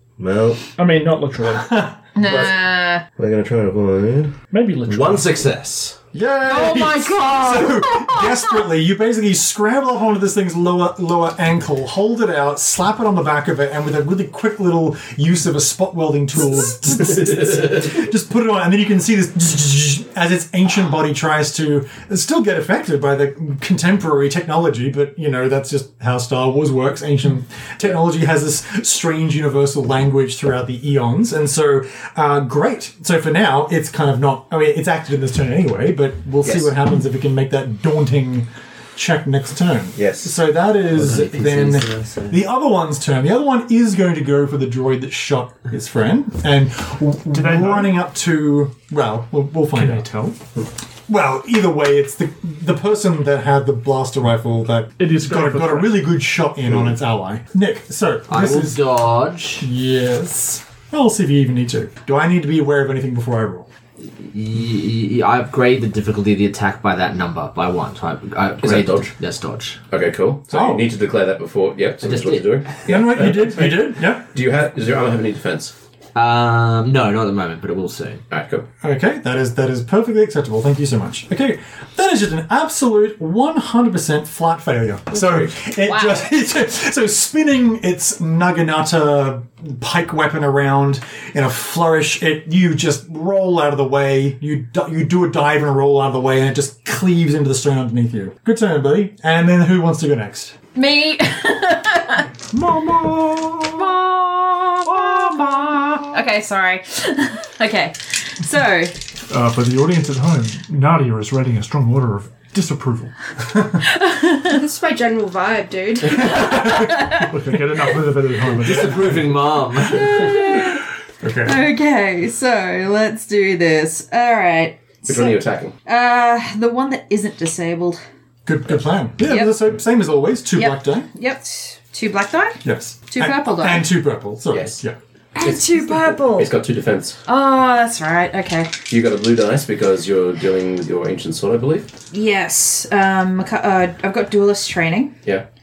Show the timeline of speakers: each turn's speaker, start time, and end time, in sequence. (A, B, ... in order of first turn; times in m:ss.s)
0:00.2-0:00.7 A
0:00.8-0:01.8 B
0:01.6-0:02.5 C
0:02.2-0:03.0 D
0:02.2-0:06.0 A
0:04.5-0:05.4 B
0:06.1-0:50.0 C
0:06.5-0:08.6 D
0:36.4-0:36.7 A
0:40.0-0:40.3 A
0:41.0-0:42.4 E
0:47.3-0:48.0 B
0:49.7-0:50.4 B
0:51.1-0:58.8 C
0:55.0-0:56.0 B
0:56.7-0:56.9 A
0:58.3-0:59.7 E
0:59.6-1:03.7 C
1:04.2-1:09.8 E
1:08.6-1:09.1 A
1:09.9-1:15.7 A
1:10.5-1:10.9 C
1:12.0-1:12.8 E
1:12.9-1:14.3 C
1:16.2-1:18.2 E
1:18.3-1:18.7 A
1:18.8-1:40.6 C
1:25.2-1:25.5 A
1:25.8-1:26.3 D
1:40.8-1:42.3 D
1:42.5-1:43.9 B
1:43.7-1:45.6 D
1:44.8-1:46.1 B
1:46.1-1:49.0 D
1:49.3-1:53.1 B
1:53.8-1:54.6 D
1:54.4-1:56.8 F
1:56.2-1:57.2 D
1:56.8-1:59.4 B
1:58.6-2:00.3 E
1:58.7-1:59.0 A
1:59.8-2:00.8 D
2:01.2-2:01.7 C
2:01.4-2:08.0 D
2:05.0-2:05.8 A
2:08.5-2:11.1 C
2:09.3-2:09.6 D
2:10.5-2:13.9 D
2:12.6-2:15.0 C
2:14.5-2:14.8 A
2:15.4-2:16.5 D
2:15.4-2:17.2 A
2:17.3-2:18.7 D
2:18.9-2:21.9 A
2:22.1-2:25.2 D